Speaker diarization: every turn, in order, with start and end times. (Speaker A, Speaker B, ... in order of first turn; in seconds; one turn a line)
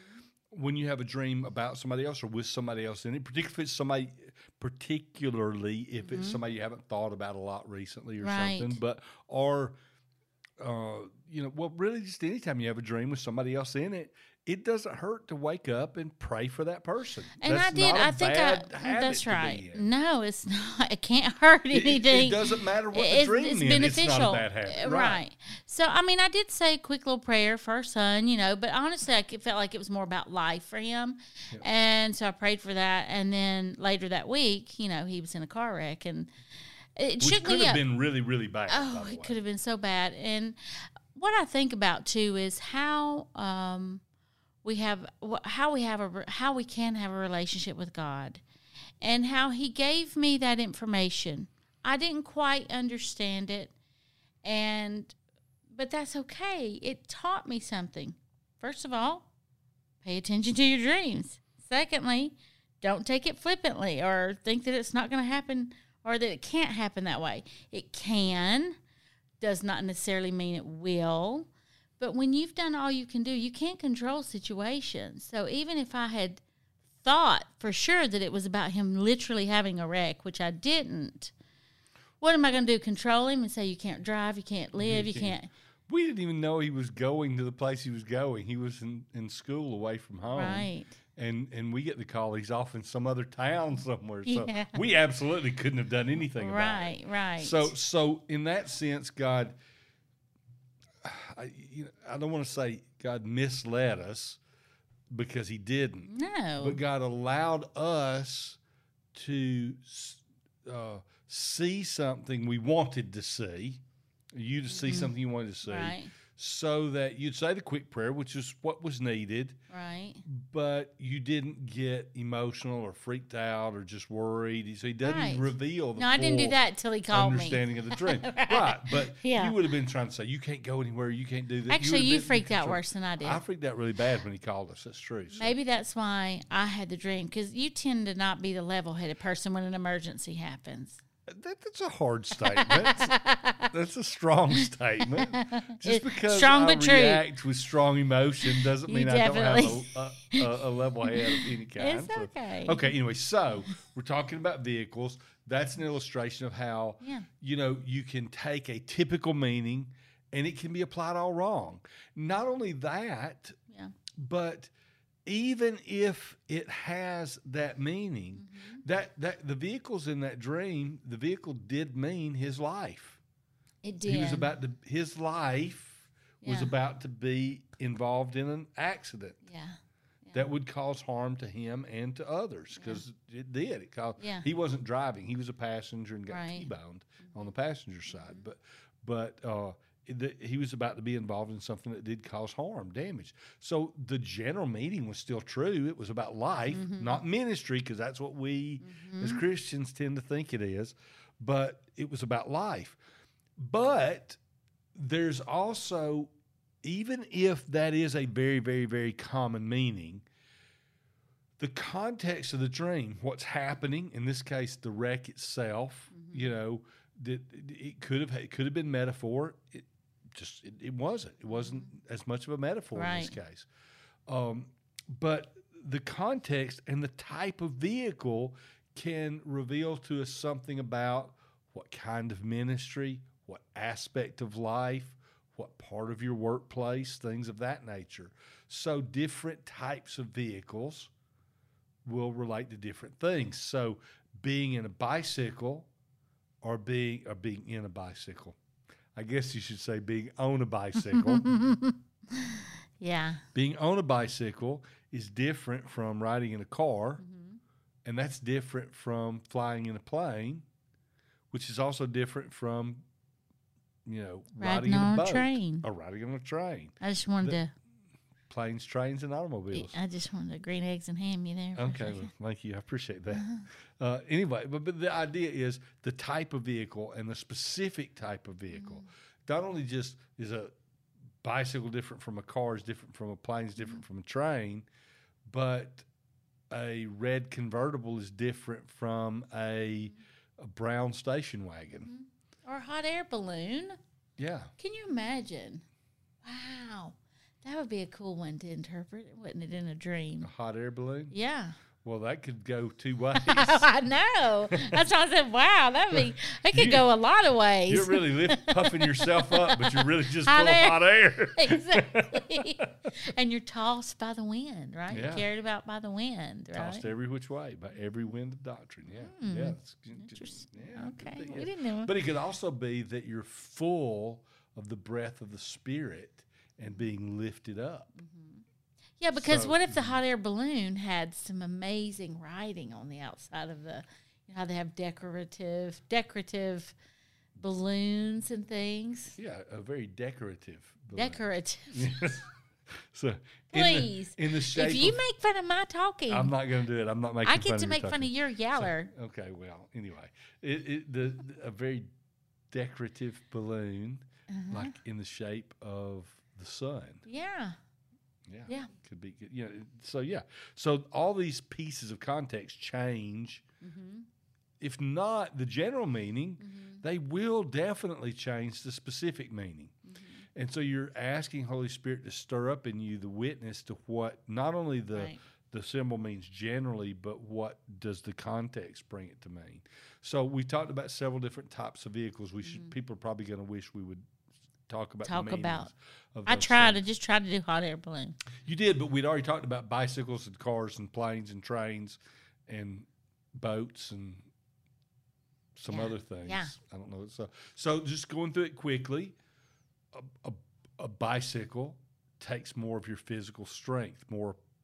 Speaker A: 0.5-9.8
Speaker B: 6.0-6.4
Speaker B: 8.2-8.8
Speaker A: 10.6-19.9
Speaker B: 17.4-36.3
Speaker A: 21.7-25.2
Speaker B: 37.0-37.8
Speaker A: 37.2-39.3
Speaker B: 38.7-40.6
Speaker B: 41.1-44.0
Speaker B: 44.6-48.4
Speaker B: 49.0-53.7
Speaker B: 54.4-55.1
Speaker B: 55.7-59.3
Speaker B: 60.0-68.8
Speaker B: 69.4-76.4
Speaker B: 77.0-81.3
Speaker B: 82.2-85.5
Speaker A: 84.8-85.4
Speaker A: 85.9-99.5
Speaker B: 90.3-91.0
Speaker B: 94.3-94.8
Speaker B: 96.3-97.7
Speaker A: 101.0-104.4
Speaker A: 105.1-108.6
Speaker B: 106.1-106.8
Speaker A: 109.1-113.8
Speaker A: 114.3-119.6
Speaker B: 114.7-115.1
Speaker B: 115.7-116.1
Speaker B: 119.7-120.2
Speaker A: 120.2-126.6
Speaker B: 125.0-129.6
Speaker A: 127.1-135.6
Speaker B: 131.7-133.4
Speaker B: 135.4-141.0
Speaker A: 141.3-143.2
Speaker B: 142.4-143.7
Speaker A: 143.7-163.6
Speaker B: 145.0-147.2
Speaker B: 148.4-150.5
Speaker B: 151.1-152.9
Speaker B: 157.0-157.3
Speaker A: 164.2-164.7
Speaker A: 165.3-173.2
Speaker B: 168.4-168.8
Speaker B: 173.8-174.5
Speaker A: 174.0-179.4
Speaker B: 176.4-176.7
Speaker B: 179.5-180.4
Speaker A: 180.3-203.0
Speaker B: 182.8-183.0
Speaker B: 184.2-184.5
Speaker B: 186.3-186.7
Speaker B: 196.7-197.2
Speaker B: 198.8-199.4
Speaker A: 203.6-204.4
Speaker A: 204.9-206.3
Speaker A: 206.8-210.2
Speaker A: 211.6-223.7
Speaker B: 216.1-216.5
Speaker B: 221.6-221.9
Speaker B: 222.9-223.3
Speaker A: 224.3-241.1
Speaker A: 242.1-245.9
Speaker A: 246.6-248.6
Speaker A: 249.2-251.5
Speaker B: 251.0-253.4
Speaker A: 253.5-257.2
Speaker B: 257.2-257.6
Speaker A: 258.1-260.6
Speaker A: 261.5-263.0
Speaker A: 264.1-267.6
Speaker B: 264.6-265.9
Speaker B: 267.0-267.7
Speaker A: 268.5-270.0
Speaker B: 269.7-272.3
Speaker A: 271.8-280.7
Speaker B: 273.3-273.7
Speaker B: 278.7-279.1
Speaker A: 281.4-284.9
Speaker A: 285.5-286.1
Speaker A: 286.7-292.1
Speaker B: 292.1-294.0
Speaker A: 294.4-294.7
Speaker B: 294.8-295.8
Speaker B: 296.4-300.5
Speaker A: 300.4-301.3
Speaker B: 301.3-301.8
Speaker A: 302.0-303.9
Speaker B: 303.3-317.1
Speaker A: 304.7-305.0
Speaker A: 306.1-307.1
Speaker A: 307.9-312.7
Speaker A: 315.1-315.5
Speaker A: 316.8-328.1
Speaker B: 319.2-322.1
Speaker B: 328.2-328.6
Speaker B: 329.2-336.9
Speaker A: 329.3-330.2
Speaker B: 337.6-339.4
Speaker A: 339.4-342.5
Speaker B: 341.1-342.4
Speaker A: 343.0-345.2
Speaker B: 343.7-346.5
Speaker A: 346.3-352.1
Speaker B: 347.4-349.1
Speaker A: 352.7-357.2
Speaker B: 354.5-354.9
Speaker B: 357.3-357.8
Speaker A: 358.5-363.6
Speaker B: 363.8-364.3
Speaker A: 364.8-369.9
Speaker B: 366.6-367.0
Speaker B: 370.1-370.4
Speaker A: 370.6-384.3
Speaker B: 382.6-382.9
Speaker A: 384.9-387.0
Speaker B: 385.2-385.9
Speaker B: 386.5-388.4
Speaker A: 388.6-394.5
Speaker A: 395.8-399.4
Speaker B: 395.9-396.7
Speaker A: 400.1-404.6